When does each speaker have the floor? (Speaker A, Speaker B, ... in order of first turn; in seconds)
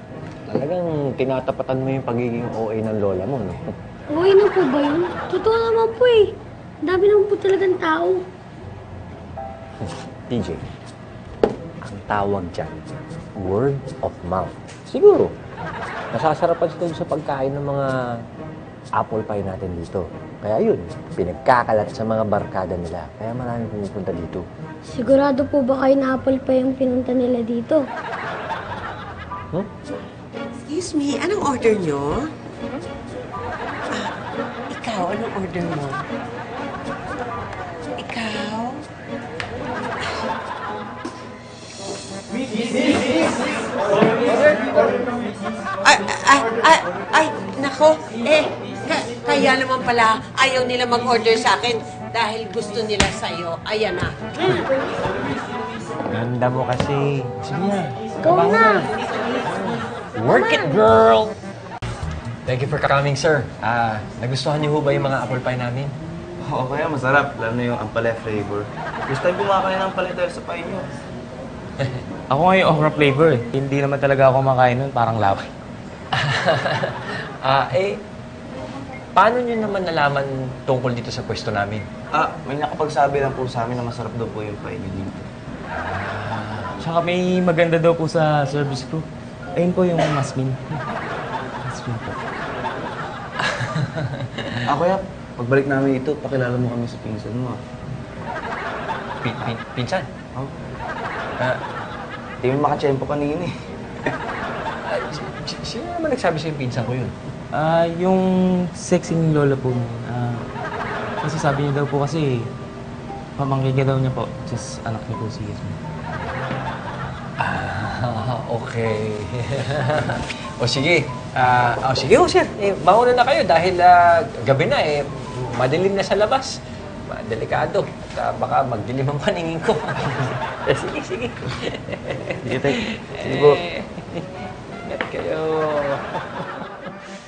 Speaker A: 0.5-3.6, 10.3-10.6, 11.8-12.7, 13.4-15.3, 16.1-17.9, 19.0-24.4, 56.1-58.9, 59.4-61.3, 62.5-65.9, 76.1-78.0, 79.1-81.9, 85.7-86.7, 93.4-94.7, 99.2-100.1, 104.8-107.1, 117.4-126.5, 127.1-134.3, 134.8-136.9
Speaker B: 4.1-6.3, 6.8-8.2, 24.9-27.8, 58.2-58.9, 60.3-60.8
Speaker C: 30.6-32.3, 34.7-36.1, 38.0-38.8, 44.2-44.8, 45.8-54.7
Speaker D: 66.4-70.9, 82.1-85.2, 94.7-97.6, 102.4-103.5, 132.4-133.6
Speaker E: 72.3-75.5, 86.8-90.8, 91.6-92.2, 107.5-110.5, 111.2-112.5, 113.4-115.8